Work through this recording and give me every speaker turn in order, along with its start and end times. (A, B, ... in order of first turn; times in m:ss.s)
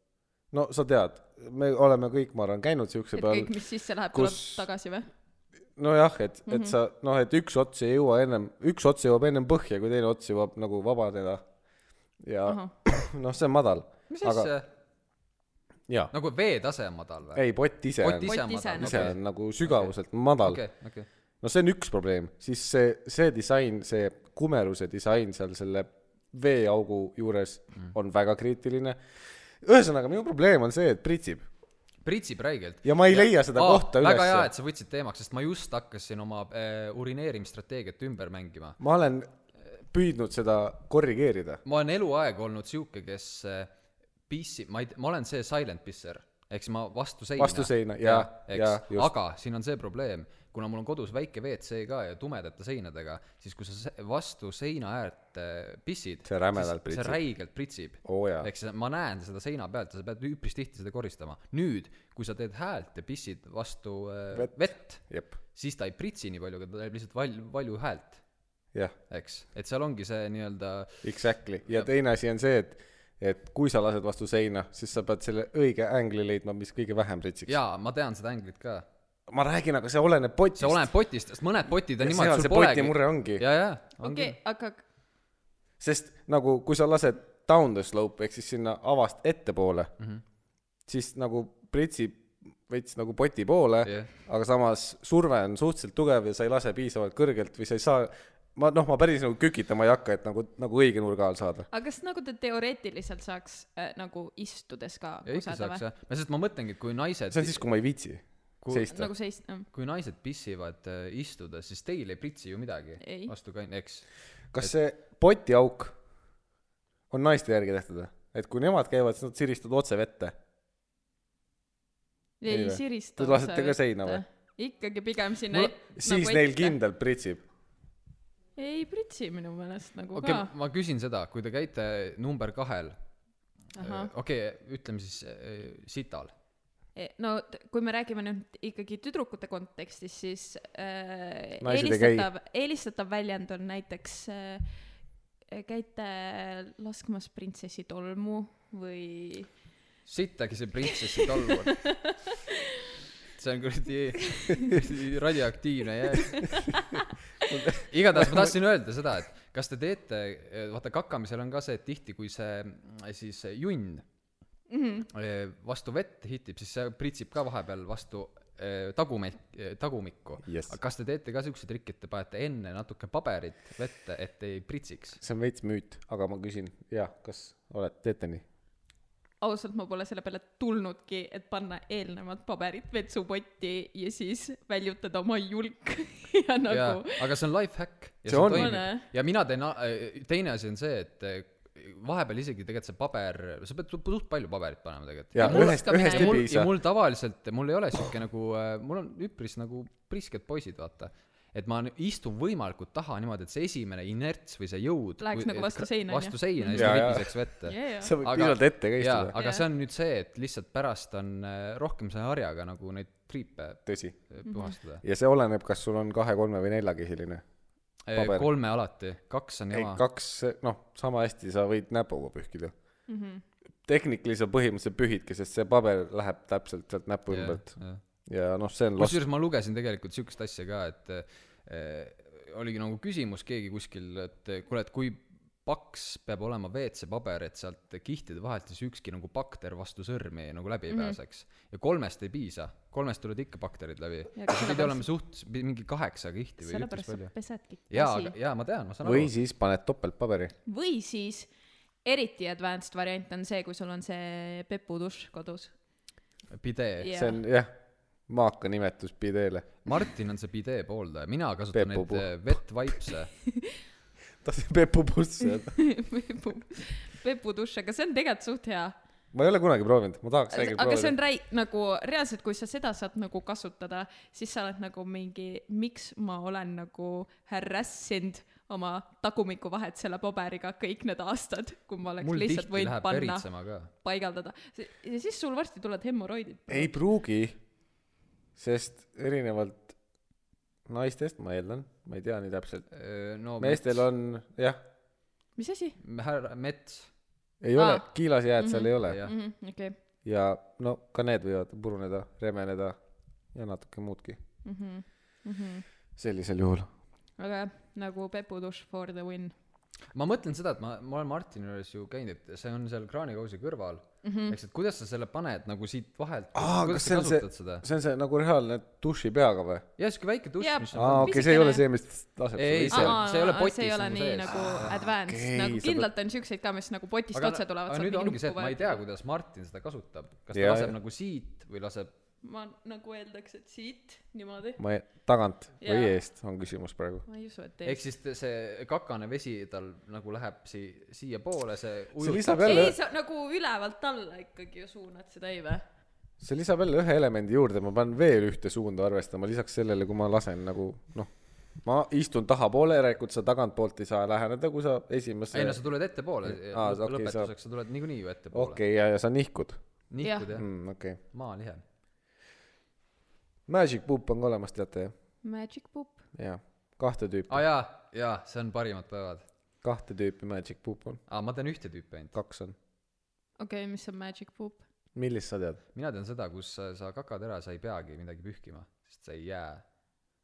0:00.5-0:03.5 A
0:03.1-0:05.1 B
0:04.1-0:04.6 A
0:05.8-0:11.4 A
0:06.5-0:06.7 B
0:12.2-0:14.5 A
0:12.5-0:12.7 B
0:14.1-0:14.7 C
0:16.1-0:17.4 C
0:17.3-0:20.6 A
0:18.0-0:21.1 C
0:18.2-0:19.1 B
0:21.4-0:31.4 A
0:32.0-0:38.8 C
0:32.8-0:34.5 A
0:38.8-0:39.3 A
0:39.9-0:41.6 A
0:41.6-0:43.7 C
0:44.3-1:08.2 C
0:47.4-0:49.1 A
0:56.2-0:57.2 A
0:58.0-0:58.5 A
1:04.3-1:05.3 A
1:09.1-1:11.1 C
1:11.0-1:17.6 A
1:17.5-1:18.8 C
1:19.3-1:20.9 A
1:20.6-1:24.4 C
1:22.0-1:23.4 A
1:24.0-1:24.8 B
1:25.8-1:29.9 A
1:30.9-1:41.7 A
1:33.8-1:34.1 C
1:41.7-1:45.8 B
1:45.2-1:47.6 C
1:47.3-1:49.1 A
1:48.6-1:49.1 C
1:48.9-1:49.6 B
1:49.7-1:54.0 C
1:53.0-1:53.3 B
1:54.5-1:56.0 A
1:57.1-2:00.4 A
2:02.4-2:06.8 B
2:02.5-2:04.2 A
2:05.5-2:07.4 A
2:08.6-2:10.5 B
2:10.1-2:13.0 C
2:13.8-2:14.1 B
2:13.8-2:16.3 C
2:16.9-2:24.8 B
2:21.6-2:22.3 A
2:25.5-2:29.5 B
2:30.0-2:32.1 C
2:31.8-2:32.3 B
2:33.3-2:36.7 C
2:37.5-2:38.6 A
2:37.8-2:44.0 C
2:44.7-2:45.1 B
2:45.1-2:55.2 C
2:50.4-2:50.7 A
2:55.2-2:58.4 A
2:59.4-3:07.2 B
3:06.7-3:35.0 C
3:08.2-3:08.8 A
3:08.5-3:09.0 B
3:15.3-3:16.7 A
3:15.4-3:16.4 B
3:25.2-3:27.1 B
3:26.7-3:27.4 A
3:27.6-3:28.1 B
3:28.0-3:29.3 A
3:29.3-3:29.6 B
3:33.8-3:34.2 A
3:34.4-3:34.7 B
3:35.0-3:37.4 A
3:38.1-3:40.0 C
3:38.1-3:38.5 A
3:39.7-3:42.7 A
3:43.1-3:43.4 B
3:43.8-3:47.7 A
3:47.3-3:48.0 C
3:48.2-3:49.2 A
3:49.0-4:07.3 C
4:00.9-4:01.2 B
4:04.3-4:05.1 B
4:06.6-4:08.3 B
4:07.9-4:09.3 C
4:09.0-4:10.5 A
4:10.6-4:11.5 B
4:12.0-4:15.7 B
4:16.5-4:17.1 C
4:17.0-4:17.4 B
4:17.1-4:17.7 A
4:18.3-4:19.7 A
4:19.8-4:23.3 C
4:21.7-4:22.4 A
4:24.4-4:25.8 A
4:25.7-4:29.0 B
4:29.3-4:31.1 A
4:30.5-4:43.4 B
4:42.2-4:43.9 C
4:44.0-4:46.9 B
4:46.7-4:47.6 A
4:48.6-4:49.9 A
4:50.9-4:52.9 A
4:52.9-4:54.1 C
4:53.6-4:54.8 A
4:55.6-4:56.0 B
4:56.0-4:57.1 C
4:57.6-4:59.2 A
4:57.8-4:58.0 B
4:58.6-4:59.9 B
4:59.0-4:59.3 C
5:00.2-5:03.0 A
5:03.5-5:04.4 A
5:04.6-5:05.8 B
5:06.2-5:06.9 A
5:07.4-5:09.5 B
5:10.1-5:17.8 C
5:14.2-5:14.5 B
5:16.5-5:19.9 A
5:20.0-5:21.5 C
5:20.6-5:21.8 B
5:20.9-5:23.2 A
5:22.6-5:24.9 C
5:22.9-5:29.0 B
5:24.5-5:26.1 A
5:27.3-5:32.1 C
5:30.5-5:30.9 A
5:32.4-5:34.8 B
5:34.8-5:37.2 A
5:35.8-5:36.1 B
5:37.3-5:38.0 B
5:37.8-5:42.9 C
5:42.2-5:42.9 A
5:42.6-5:45.8 B
5:46.4-5:55.8 A
5:55.5-5:58.8 C
5:56.4-5:57.5 A
5:58.5-5:59.8 A
6:00.1-6:00.6 C
6:00.5-6:01.2 A
6:01.3-6:01.8 C
6:03.7-6:05.1 A
6:05.4-6:06.2 B
6:06.3-6:07.6 A
6:07.5-6:09.4 C
6:09.8-6:11.2 A
6:11.3-6:12.3 C
6:12.3-6:12.8 A
6:13.6-6:14.8 B
6:15.1-6:15.8 A
6:15.9-6:19.8 C